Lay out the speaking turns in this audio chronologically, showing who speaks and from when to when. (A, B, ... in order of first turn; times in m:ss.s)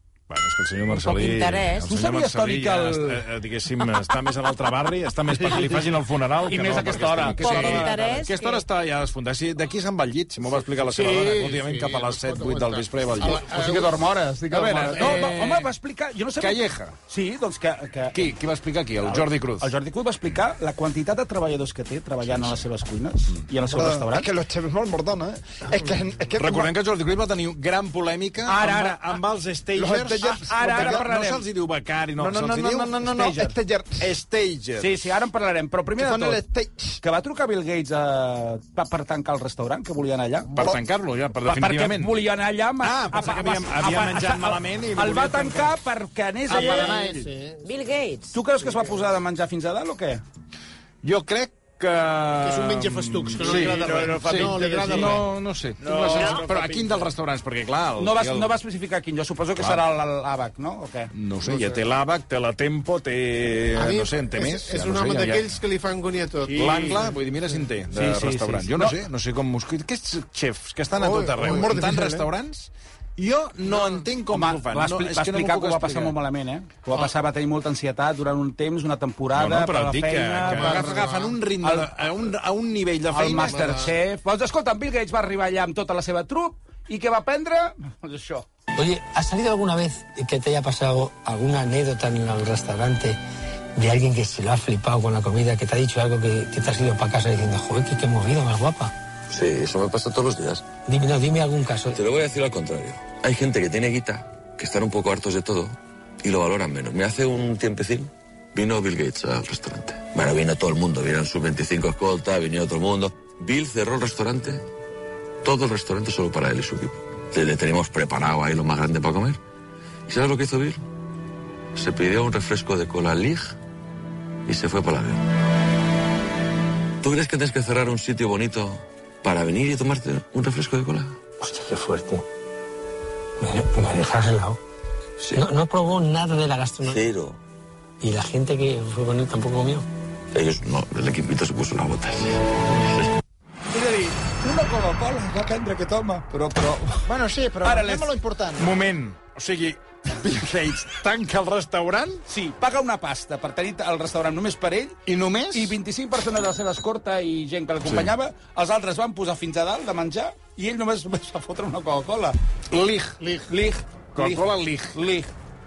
0:00.3-0:13.5 A
0:00.9-0:02.0 B
0:01.8-0:03.2 C
0:05.4-0:05.9 C
0:06.4-0:08.2 C
0:07.4-0:08.6 B
0:10.6-0:14.0 D
0:13.2-0:18.4 C
0:14.5-0:15.4 D
0:14.6-0:15.7 A
0:16.4-0:16.9 A
0:18.1-0:19.7 A
0:19.0-0:24.3 C
0:23.7-0:26.7 E
0:26.4-0:33.0 A
0:28.4-0:29.2 C
0:29.7-0:31.1 E
0:30.2-0:31.4 C
0:32.2-0:34.1 E
0:32.9-0:33.5 C
0:34.0-0:35.0 A
0:34.8-0:36.4 C
0:36.0-0:37.0 E
0:37.0-0:40.7 C
0:40.5-0:42.2 A
0:41.4-0:47.3 C
0:42.8-0:45.7 A
0:46.5-0:47.6 D
0:46.5-0:46.9 A
0:47.6-0:48.3 B
0:48.3-0:50.2 C
0:51.0-0:58.6 A
0:52.4-0:55.3 D
0:53.5-0:55.2 C
0:53.8-0:54.2 E
0:55.8-0:56.9 C
0:56.0-0:56.2 D
0:58.0-1:01.1 C
0:59.6-0:59.8 A
1:01.1-1:05.5 A
1:01.4-1:01.8 D
1:03.7-1:07.2 D
1:06.4-1:16.2 A
1:07.9-1:09.0 C
1:10.9-1:12.3 D
1:14.3-1:21.1 C
1:19.3-1:23.9 A
1:20.4-1:21.4 D
1:21.6-1:21.9 C
1:23.1-1:28.5 C
1:23.3-1:23.9 D
1:28.7-1:33.2 F
1:33.8-1:38.9 F
1:39.3-1:40.7 G
1:40.8-1:42.0 F
1:41.9-1:54.6 G
1:55.4-1:59.4 G
2:00.1-2:00.8 G
2:01.7-2:03.6 G
2:04.4-2:05.3 G
2:07.0-2:11.2 G
2:11.4-2:12.2 F
2:13.4-2:14.6 F
2:15.2-2:15.5 G
2:15.3-2:17.0 F
2:16.8-2:17.4 G
2:18.0-2:19.8 F
2:20.3-2:23.0 G
2:23.7-2:27.1 C
2:27.0-2:28.7 E
2:27.6-2:28.1 C
2:28.6-2:32.2 A
2:32.3-2:42.4 C
2:35.0-2:35.8 A
2:37.8-2:38.1 A
2:42.7-2:43.1 A
2:43.2-2:43.5 D
2:43.5-2:45.3 C
2:44.1-2:45.0 A